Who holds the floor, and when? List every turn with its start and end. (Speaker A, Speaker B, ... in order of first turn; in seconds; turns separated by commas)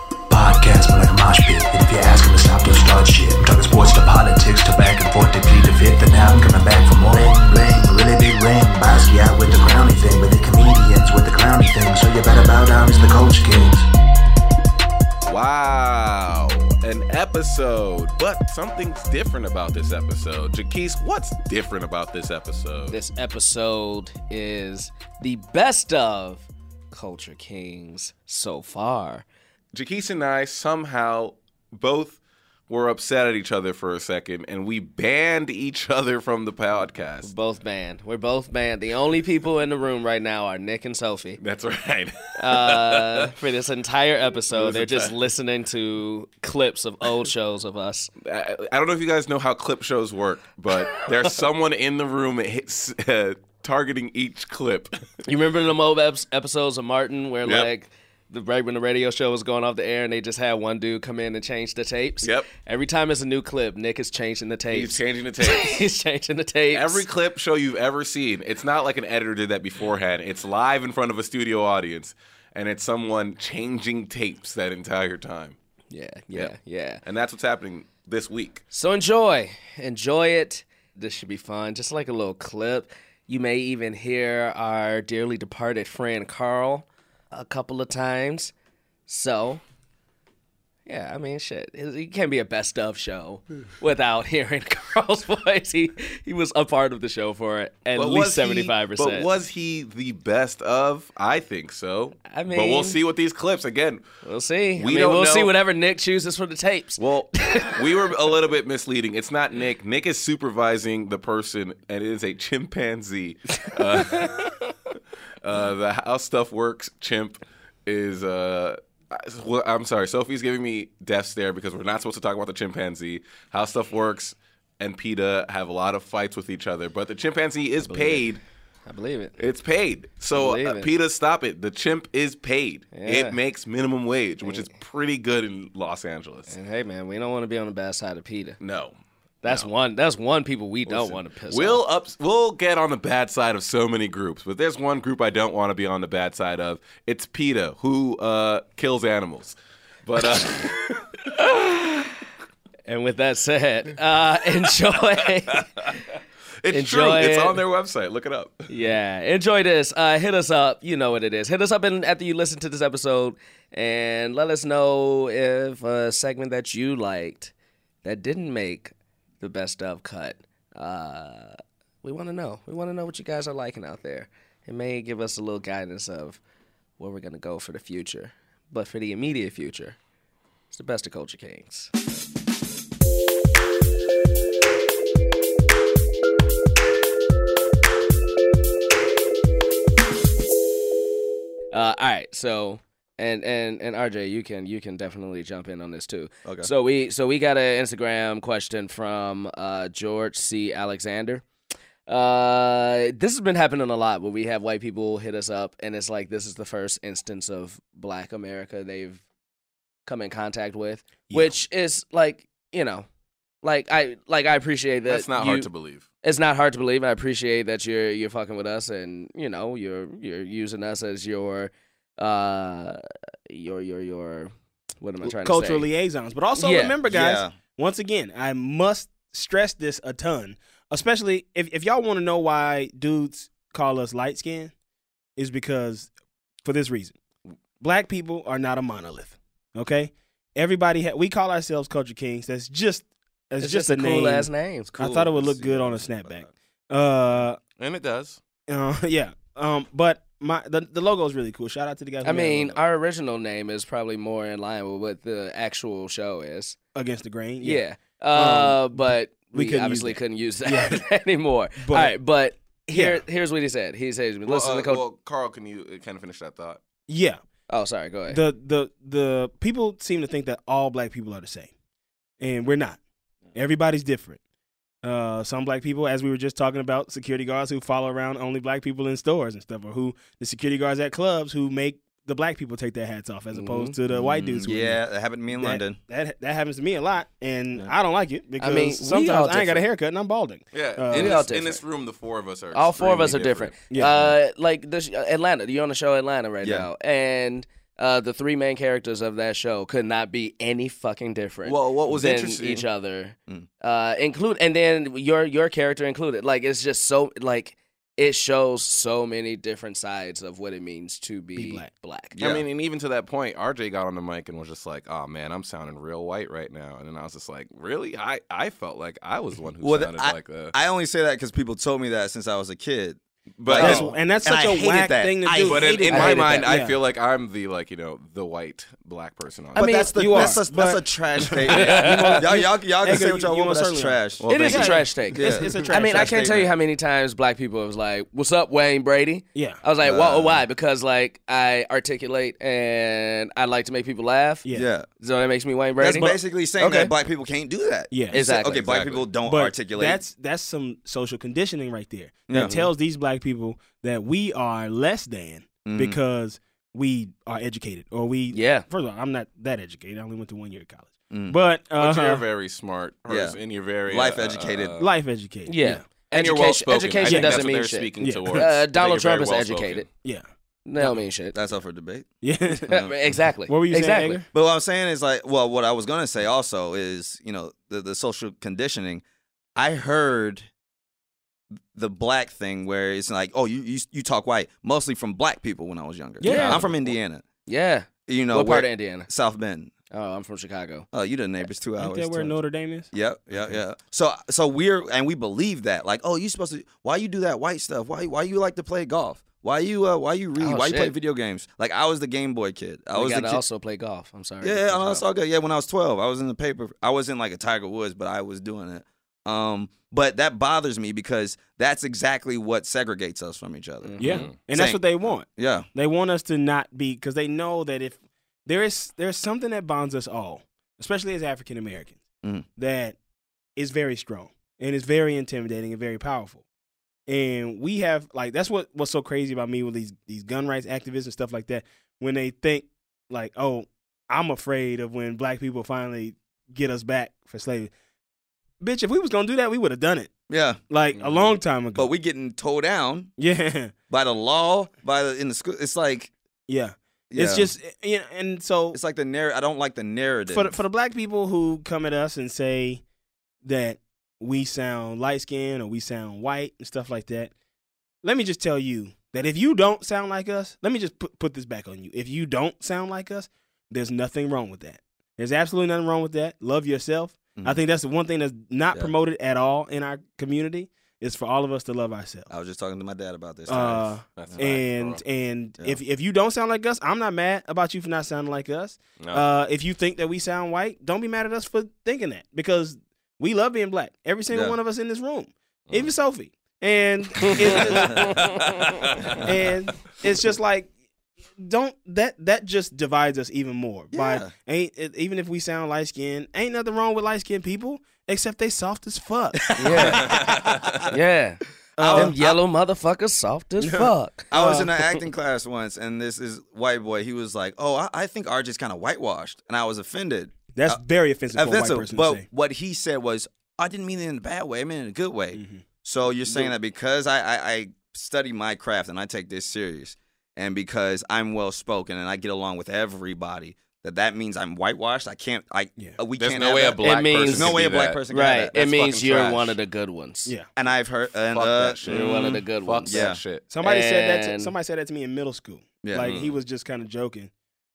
Speaker A: 0.3-13.9, Speaker B: 15.2-23.0, Speaker C: 22.9-29.2, Speaker B: 29.7-37.3, Speaker C: 37.2-41.4, Speaker B: 41.4-43.3, Speaker C: 42.4-48.1, Speaker B: 44.5-45.1, Speaker B: 48.2-54.9, Speaker C: 55.2-67.0, Speaker B: 57.4-57.7, Speaker B: 62.2-62.5, Speaker B: 64.7-65.9, Speaker B: 66.7-75.6, Speaker C: 75.9-77.0, Speaker B: 77.0-78.6, Speaker C: 78.7-88.5, Speaker C: 89.1-89.6, Speaker C: 90.9-99.3, Speaker B: 98.0-104.0, Speaker C: 102.3-103.0, Speaker C: 104.2-107.8, Speaker B: 104.8-105.5, Speaker B: 107.0-114.5, Speaker C: 113.6-114.5, Speaker B: 115.4-128.4, Speaker C: 128.9-129.4, Speaker B: 129.4-136.5, Speaker C: 130.3-130.9, Speaker C: 132.9-133.4, Speaker C: 134.4-134.7, Speaker C: 136.5-138.6, Speaker B: 138.6-139.7, Speaker C: 139.4-141.8, Speaker B: 140.9-150.8, Speaker C: 150.4-152.1, Speaker C: 152.9-155.7, Speaker B: 155.5-156.0, Speaker B: 156.6-158.7, Speaker C: 156.7-157.6, Speaker C: 158.7-167.5, Speaker C: 168.0-176.4, Speaker C: 177.0-180.0, Speaker C: 180.7-181.9, Speaker C: 191.7-201.4, Speaker D: 196.4-196.7, Speaker C: 202.1-209.2, Speaker C: 210.1-213.1, Speaker E: 211.3-211.6, Speaker C: 213.6-215.7, Speaker B: 215.1-216.1, Speaker C: 216.2-225.9, Speaker E: 225.2-234.7, Speaker C: 226.6-227.0, Speaker D: 227.1-227.6, Speaker E: 235.4-236.1, Speaker E: 236.6-237.2, Speaker E: 237.8-247.6, Speaker C: 243.6-245.3, Speaker D: 245.2-246.5, Speaker B: 247.8-248.4, Speaker E: 248.7-252.8, Speaker C: 252.2-256.8, Speaker E: 256.9-261.0, Speaker C: 257.6-265.0, Speaker E: 261.8-262.1, Speaker E: 262.9-263.2, Speaker B: 264.5-266.8, Speaker E: 267.1-267.4, Speaker C: 267.7-268.4, Speaker E: 268.3-271.7, Speaker E: 272.4-273.0, Speaker E: 273.5-274.4, Speaker E: 275.0-291.4, Speaker C: 283.5-283.9, Speaker D: 284.1-286.0, Speaker C: 288.6-289.9, Speaker B: 290.7-293.8, Speaker C: 291.1-291.8, Speaker C: 292.7-312.3, Speaker E: 293.9-294.2, Speaker D: 296.6-296.9, Speaker B: 301.6-302.9, Speaker E: 311.6-311.9, Speaker D: 312.3-312.7, Speaker B: 312.4-320.7, Speaker D: 319.8-325.8, Speaker B: 323.6-324.1, Speaker E: 323.8-327.0, Speaker B: 325.7-330.1, Speaker C: 326.1-326.7, Speaker C: 329.8-330.6, Speaker D: 329.8-336.7, Speaker E: 330.1-336.4, Speaker C: 331.7-332.4, Speaker B: 334.4-334.7, Speaker C: 334.5-344.6, Speaker E: 339.6-339.8, Speaker D: 340.0-340.6, Speaker D: 344.7-345.1, Speaker C: 345.2-347.1, Speaker D: 346.0-350.2, Speaker E: 348.1-348.4, Speaker C: 348.3-349.2, Speaker E: 349.4-362.4, Speaker D: 352.5-352.9, Speaker D: 355.9-356.2, Speaker C: 358.5-358.9, Speaker D: 361.3-361.6, Speaker B: 362.0-365.1, Speaker D: 363.3-365.0, Speaker E: 365.0-366.0, Speaker C: 365.7-370.1, Speaker B: 366.3-370.1, Speaker E: 367.3-367.6, Speaker E: 368.2-368.6, Speaker C: 370.9-371.6, Speaker D: 371.5-373.1, Speaker E: 372.4-373.0, Speaker C: 372.9-374.4, Speaker E: 373.7-374.5, Speaker D: 374.5-379.2, Speaker D: 379.8-380.7, Speaker D: 381.9-387.4, Speaker E: 386.4-386.9, Speaker C: 386.4-386.8, Speaker C: 387.7-389.3, Speaker D: 388.3-389.9, Speaker C: 390.1-391.1, Speaker D: 391.1-392.6, Speaker E: 392.0-393.1, Speaker D: 393.1-403.6, Speaker C: 400.6-401.1, Speaker C: 403.1-405.2, Speaker D: 404.6-415.9, Speaker C: 414.0-414.5, Speaker E: 414.2-422.2, Speaker B: 414.3-414.5, Speaker E: 422.8-423.2, Speaker E: 423.8-426.6, Speaker E: 427.3-437.9, Speaker E: 438.8-440.3, Speaker D: 440.5-440.8, Speaker E: 440.9-442.1, Speaker B: 441.2-441.5, Speaker D: 441.9-443.3, Speaker E: 443.4-443.9, Speaker D: 444.1-446.3, Speaker E: 446.7-449.0, Speaker D: 447.3-447.7, Speaker D: 448.9-450.8, Speaker E: 450.5-453.0, Speaker E: 453.6-457.5, Speaker E: 458.2-472.5, Speaker D: 467.6-467.8, Speaker D: 472.5-474.7, Speaker E: 473.7-488.6, Speaker B: 474.4-475.2, Speaker B: 479.2-479.5, Speaker D: 484.5-484.8, Speaker C: 487.4-488.8, Speaker B: 488.7-489.4, Speaker E: 489.4-490.9, Speaker E: 491.6-501.1, Speaker D: 494.1-494.5, Speaker D: 499.7-500.4, Speaker C: 499.8-500.3, Speaker B: 500.3-500.8, Speaker C: 501.1-504.5, Speaker E: 502.0-502.4, Speaker D: 502.0-502.6, Speaker E: 503.8-504.9, Speaker D: 504.5-511.0, Speaker E: 510.7-512.4, Speaker D: 511.5-528.8, Speaker E: 515.5-515.9, Speaker E: 516.5-516.7, Speaker B: 526.4-528.2, Speaker C: 527.0-530.5, Speaker B: 528.7-529.8, Speaker D: 530.8-532.4, Speaker B: 531.5-533.7, Speaker C: 532.1-533.2, Speaker D: 533.1-533.4, Speaker E: 533.7-537.5, Speaker C: 533.8-534.7, Speaker D: 536.0-536.5, Speaker B: 536.1-536.5